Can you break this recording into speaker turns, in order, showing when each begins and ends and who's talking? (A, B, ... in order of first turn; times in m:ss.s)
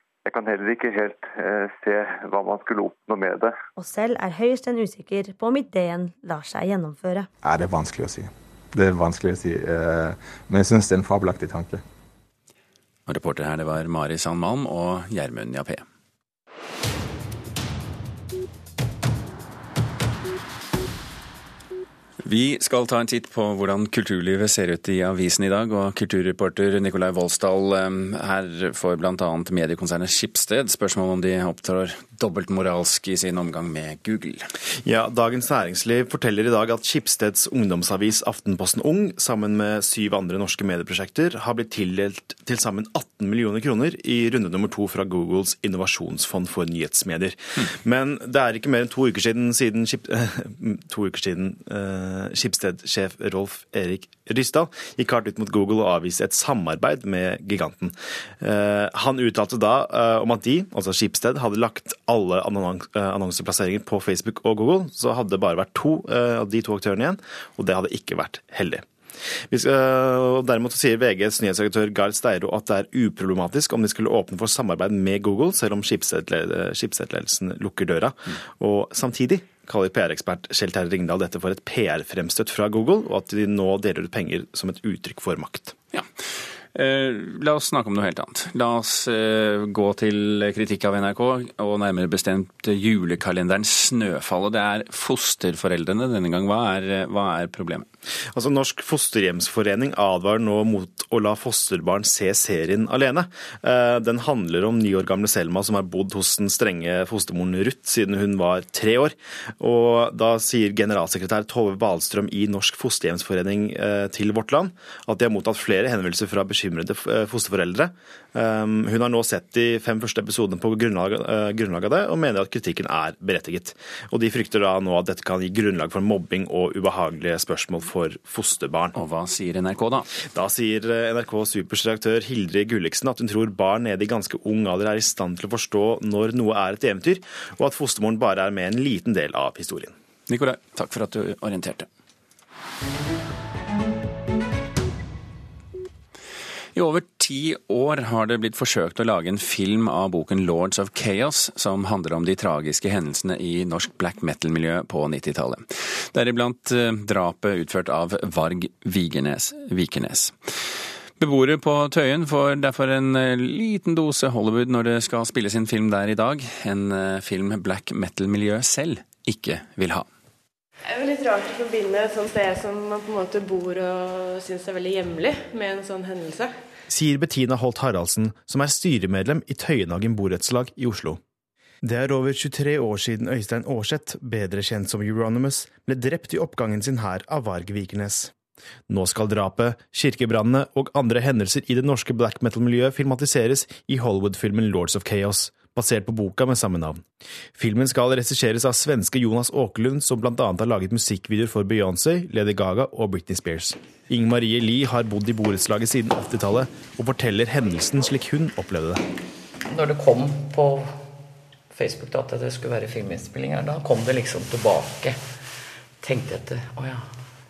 0:00.2-0:03.5 A
0:03.8-0:07.3 B
0:07.4-0:11.8 C
0:13.1-0:15.8 D
0:22.2-0:34.5 D
0:34.8-1:08.8 E
1:09.5-1:25.8 E
1:25.9-1:26.2 D
1:26.7-1:37.9 D
1:38.3-2:08.9 E
2:09.0-2:10.1 D
2:10.3-2:19.9 E
2:20.3-2:21.9 D
2:26.8-2:40.4 D
2:41.2-2:50.1 D
2:50.9-2:56.6 F
2:56.9-3:01.2 E
3:01.8-3:08.3 E
3:08.9-3:17.0 E
3:17.6-3:29.0 E
3:29.7-3:30.9 G
3:31.7-3:35.2 G
3:36.0-3:37.1 G